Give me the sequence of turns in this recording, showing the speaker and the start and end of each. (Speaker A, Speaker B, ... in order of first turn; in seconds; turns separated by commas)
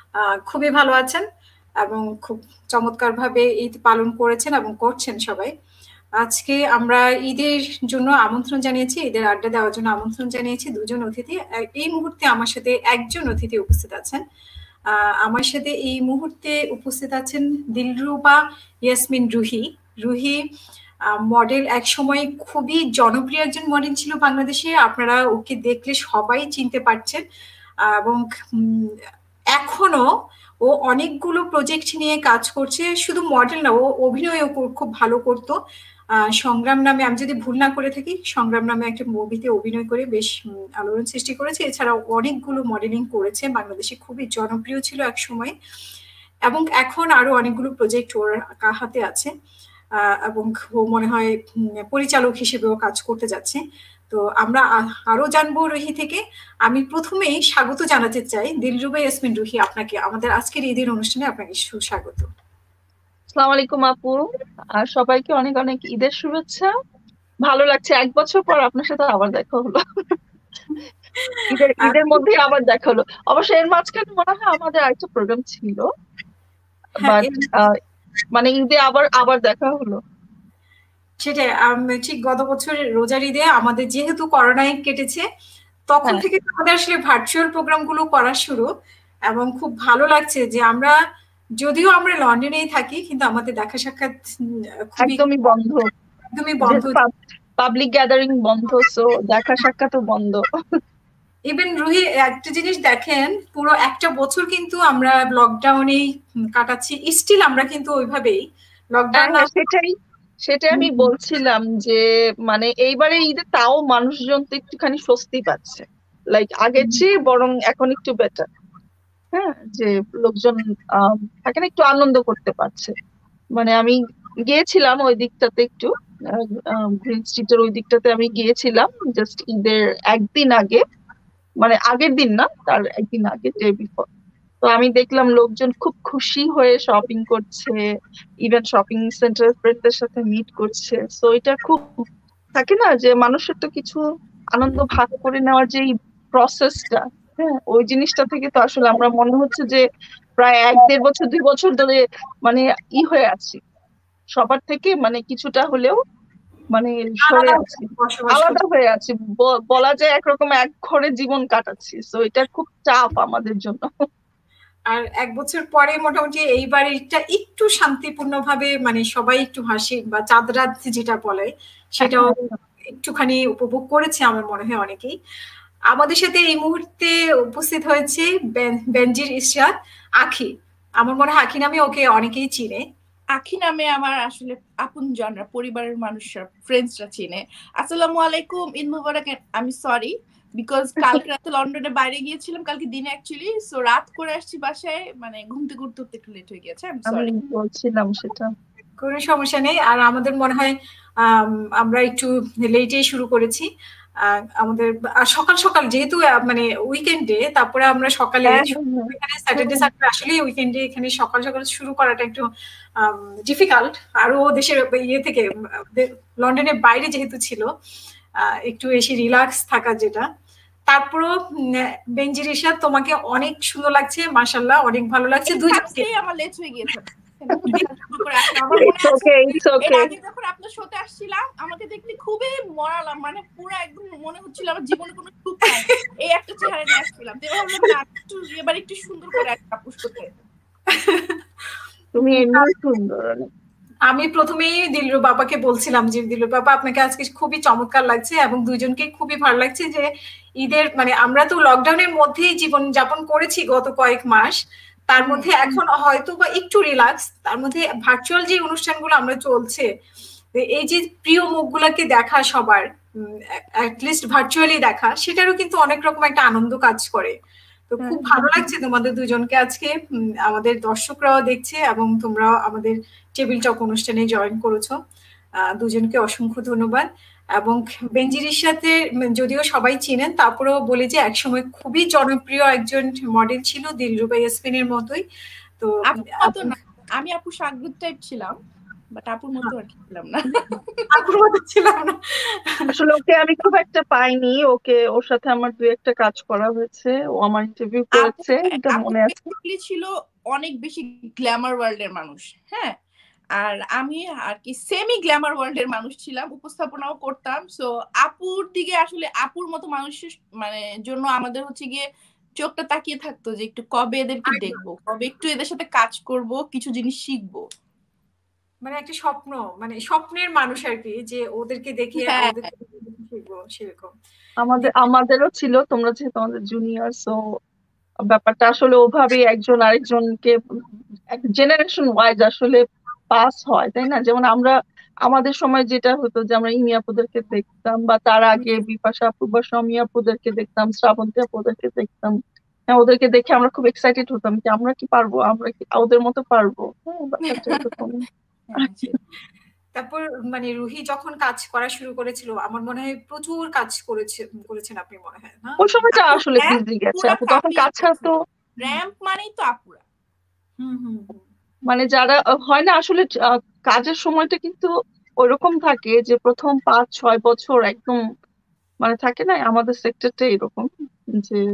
Speaker A: 0.5-1.2, Speaker A: 1.8-5.5, Speaker A: 6.2-14.2, Speaker A: 14.9-20.4, Speaker A: 21.1-27.2, Speaker A: 27.9-28.9, Speaker A: 29.6-30.1, Speaker A: 30.6-35.6, Speaker A: 36.4-45.5, Speaker A: 46.5-49.3, Speaker A: 50.3-51.3, Speaker A: 51.9-62.3, Speaker B: 63.3-64.2, Speaker B: 64.8-66.7, Speaker B: 67.5-69.8, Speaker A: 71.3-72.1, Speaker B: 71.5-75.8, Speaker A: 77.0-77.5, Speaker B: 77.1-77.7, Speaker B: 78.3-80.0, Speaker A: 81.2-85.2, Speaker A: 85.9-88.7, Speaker A: 89.3-91.0, Speaker A: 91.6-94.1, Speaker B: 95.0-95.8, Speaker A: 96.4-97.0, Speaker B: 96.7-100.4, Speaker A: 101.5-108.4, Speaker A: 109.0-109.5, Speaker B: 109.2-109.9, Speaker B: 110.5-118.5, Speaker A: 110.8-111.0, Speaker B: 119.3-122.9, Speaker B: 123.5-124.0, Speaker B: 124.5-125.9, Speaker B: 126.5-130.8, Speaker B: 131.6-134.1, Speaker B: 134.6-137.8, Speaker B: 138.4-141.9, Speaker B: 142.6-144.0, Speaker B: 144.5-149.8, Speaker B: 150.4-153.6, Speaker B: 154.4-156.0, Speaker B: 156.7-163.9, Speaker A: 157.3-158.6, Speaker A: 164.9-172.4, Speaker B: 172.0-172.4, Speaker A: 172.9-175.1, Speaker A: 175.9-182.8, Speaker C: 183.4-197.3, Speaker B: 197.1-198.5, Speaker A: 199.0-200.7, Speaker A: 201.3-203.7, Speaker A: 204.2-212.4, Speaker B: 208.5-209.8, Speaker A: 213.0-217.7, Speaker A: 218.4-220.3, Speaker A: 220.9-226.1, Speaker C: 225.5-229.2, Speaker A: 228.4-229.2, Speaker B: 228.8-230.1, Speaker C: 229.8-240.3, Speaker A: 235.7-236.0, Speaker A: 240.9-241.4, Speaker B: 242.2-243.5, Speaker A: 242.2-242.7, Speaker A: 244.1-250.1, Speaker A: 250.6-254.5, Speaker A: 255.1-259.9, Speaker C: 255.2-255.5, Speaker A: 260.6-262.8, Speaker A: 263.8-267.3, Speaker A: 267.9-269.9, Speaker C: 268.0-268.6, Speaker A: 270.5-274.9, Speaker A: 275.8-277.1, Speaker A: 277.6-285.2, Speaker A: 285.8-286.7, Speaker C: 286.1-288.6, Speaker C: 289.1-291.1, Speaker A: 291.1-292.2, Speaker B: 292.9-299.5, Speaker C: 298.2-302.9, Speaker C: 303.6-312.0, Speaker C: 312.6-317.6, Speaker A: 314.5-314.8, Speaker A: 318.8-324.1, Speaker C: 322.2-322.7, Speaker B: 324.6-327.4, Speaker B: 328.3-330.5, Speaker B: 331.3-332.8, Speaker B: 333.3-334.7, Speaker B: 335.3-342.3, Speaker B: 342.9-348.2, Speaker C: 347.5-347.9, Speaker C: 348.7-349.2, Speaker B: 348.8-349.1, Speaker A: 350.0-356.0, Speaker B: 355.8-358.3, Speaker C: 356.1-358.3, Speaker C: 358.8-360.0, Speaker A: 360.8-361.4, Speaker B: 361.9-363.3, Speaker B: 363.9-364.9, Speaker B: 365.4-368.2, Speaker B: 369.0-371.6